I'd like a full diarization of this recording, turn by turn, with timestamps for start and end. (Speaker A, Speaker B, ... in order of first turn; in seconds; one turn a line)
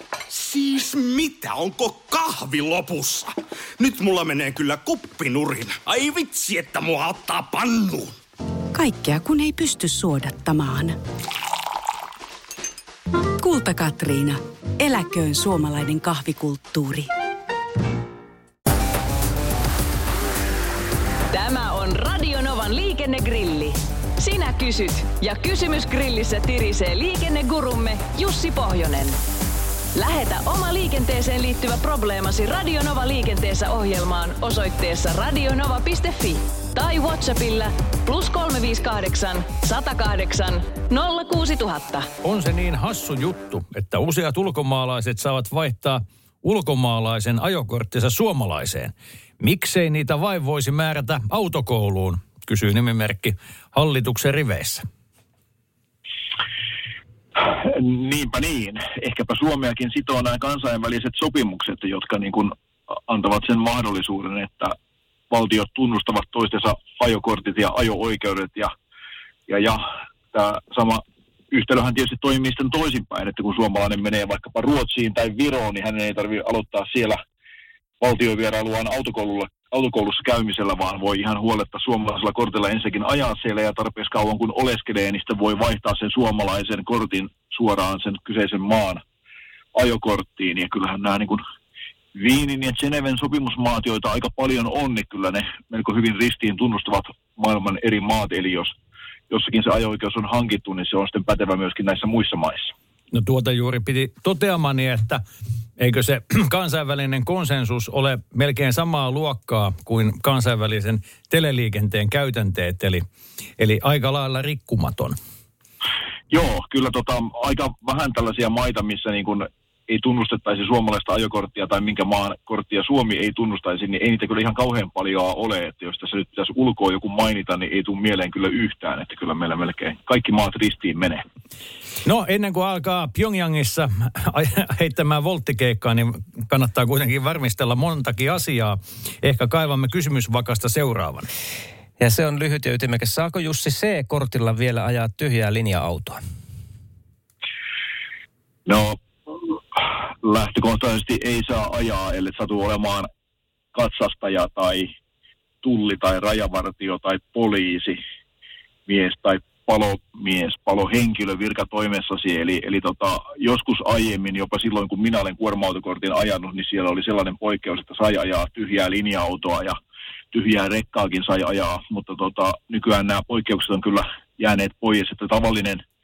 Speaker A: 0.3-8.1
Speaker B: 8.7-10.9
Speaker B: 13.4-17.1
Speaker C: 21.3-29.1
Speaker C: 29.9-42.1
Speaker D: 42.2-54.8
Speaker E: 57.4-62.5
Speaker E: 63.1-64.7
Speaker E: 65.3-68.7
Speaker E: 69.5-69.8
Speaker E: 70.3-77.2
Speaker E: 78.0-89.0
Speaker E: 89.7-91.4
Speaker E: 92.1-98.7
Speaker E: 99.3-102.7
Speaker D: 103.1-105.2
Speaker D: 105.8-113.0
Speaker D: 113.6-115.2
Speaker E: 116.3-131.2
Speaker D: 132.1-141.3
Speaker F: 142.0-146.2
Speaker E: 148.7-153.1
Speaker E: 153.7-154.9
Speaker E: 155.6-158.0
Speaker E: 158.9-169.7
Speaker E: 170.3-175.8